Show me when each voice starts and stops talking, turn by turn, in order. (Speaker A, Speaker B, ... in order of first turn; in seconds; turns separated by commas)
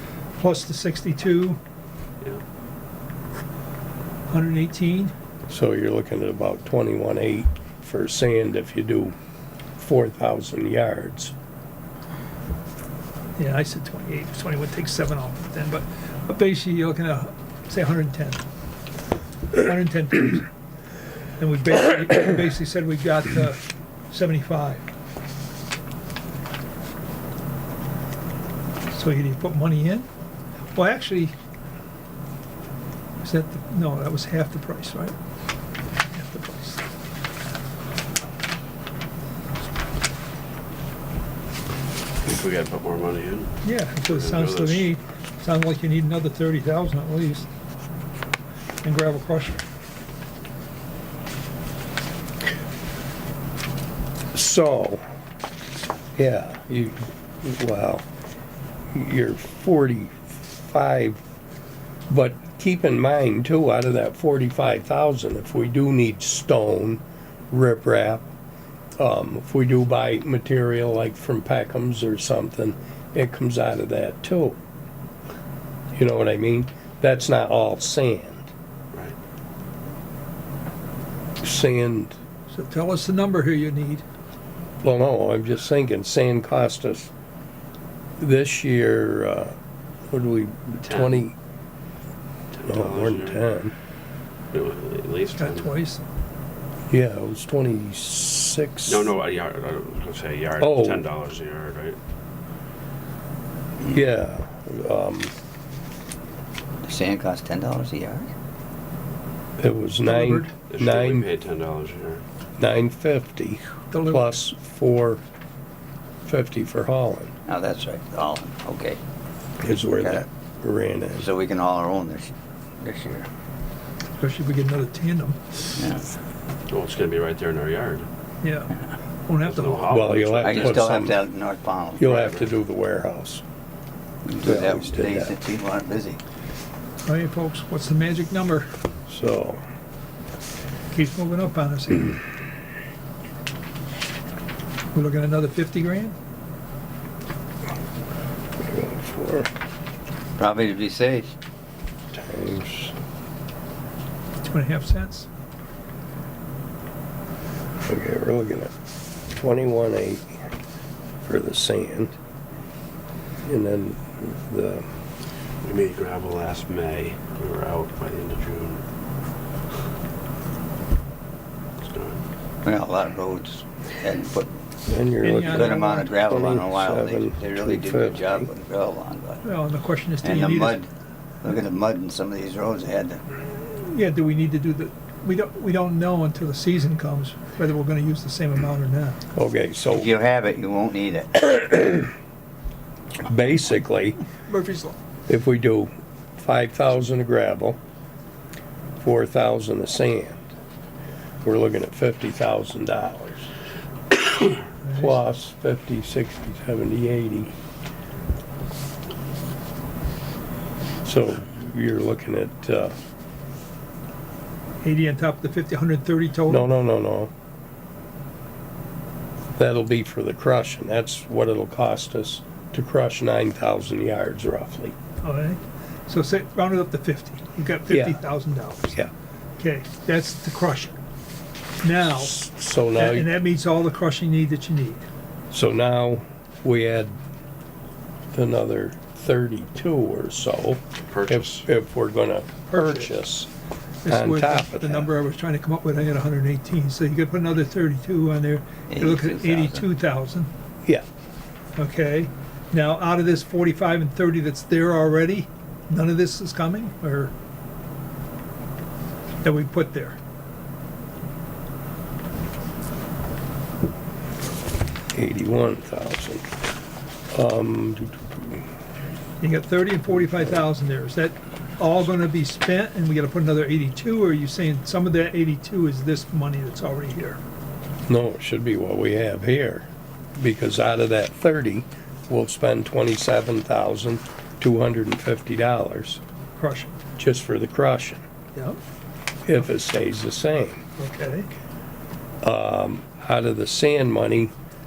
Speaker A: 0.4-1.6, Speaker A: 4.3-5.1, Speaker B: 5.5-9.2, Speaker B: 9.8-11.3, Speaker A: 13.4-18.4, Speaker A: 19.6-20.5, Speaker A: 21.4-24.9, Speaker A: 28.9-30.1, Speaker A: 30.7-31.3, Speaker A: 33.2-35.1, Speaker A: 36.1-36.8, Speaker C: 42.2-44.9, Speaker A: 43.6-47.5, Speaker A: 48.8-49.6, Speaker B: 54.3-55.0, Speaker B: 56.2-58.1, Speaker B: 58.9-61.2, Speaker B: 62.1-68.3, Speaker B: 69.0-74.6, Speaker B: 75.9-78.5, Speaker B: 81.4-82.1, Speaker A: 82.5-84.0, Speaker B: 84.8-87.1, Speaker B: 88.2-89.6, Speaker B: 90.1-91.4, Speaker C: 90.8-91.2, Speaker C: 92.5-93.4, Speaker B: 92.7-93.7, Speaker C: 94.5-95.7, Speaker A: 95.4-96.0, Speaker B: 96.9-99.1, Speaker C: 98.9-102.0, Speaker B: 100.6-101.0, Speaker B: 103.9-105.3, Speaker D: 106.8-108.3, Speaker B: 109.6-111.3, Speaker A: 110.1-110.5, Speaker C: 110.7-112.2, Speaker B: 112.6-115.2, Speaker A: 113.9-114.3, Speaker B: 116.2-117.3, Speaker D: 117.5-119.0, Speaker B: 119.6-121.3, Speaker D: 120.0-120.3, Speaker D: 121.2-123.3, Speaker A: 124.2-125.6, Speaker D: 125.8-126.1, Speaker C: 126.7-128.1, Speaker A: 128.4-128.8, Speaker A: 129.3-130.0, Speaker C: 129.4-131.0, Speaker B: 129.9-131.2, Speaker D: 130.4-132.1, Speaker B: 132.0-133.4, Speaker C: 132.0-132.5, Speaker D: 134.3-136.2, Speaker B: 134.4-135.3, Speaker A: 137.1-138.7, Speaker B: 139.1-139.6, Speaker A: 140.9-142.2, Speaker A: 144.9-146.2, Speaker B: 148.6-149.5, Speaker D: 150.4-151.3, Speaker B: 152.1-152.9, Speaker A: 154.4-155.3, Speaker B: 157.9-158.7, Speaker B: 159.3-160.3, Speaker B: 161.2-162.2, Speaker B: 163.5-164.9, Speaker C: 165.6-168.8, Speaker C: 171.8-172.2, Speaker D: 172.6-174.5, Speaker B: 174.9-178.5, Speaker A: 175.2-176.1, Speaker D: 175.4-179.4, Speaker A: 179.4-180.8, Speaker D: 180.2-180.9, Speaker D: 181.4-183.2, Speaker A: 183.7-189.2, Speaker B: 189.3-190.1, Speaker D: 189.9-191.5, Speaker B: 191.6-192.1, Speaker B: 193.2-194.2, Speaker A: 194.5-195.0, Speaker B: 195.3-197.8, Speaker B: 199.0-200.4, Speaker B: 201.4-203.5, Speaker A: 204.8-205.1, Speaker B: 204.9-207.5, Speaker B: 211.0-213.0, Speaker A: 214.8-216.7, Speaker B: 216.5-217.3, Speaker B: 219.6-224.9, Speaker A: 225.2-229.0, Speaker B: 227.9-228.2, Speaker A: 229.6-231.0, Speaker A: 231.8-232.4, Speaker B: 232.0-233.3, Speaker A: 233.0-235.1, Speaker B: 235.5-237.2, Speaker B: 238.3-243.5, Speaker C: 241.1-241.7, Speaker A: 242.7-243.1, Speaker A: 244.1-250.5, Speaker B: 244.1-245.1, Speaker D: 248.9-249.9, Speaker A: 251.8-257.3, Speaker A: 259.4-260.2, Speaker B: 265.1-266.5, Speaker B: 267.3-268.6, Speaker A: 269.4-277.4, Speaker B: 278.1-286.2, Speaker A: 286.6-286.9, Speaker B: 287.2-288.2, Speaker B: 289.4-290.8, Speaker A: 291.0-291.5, Speaker B: 292.4-294.5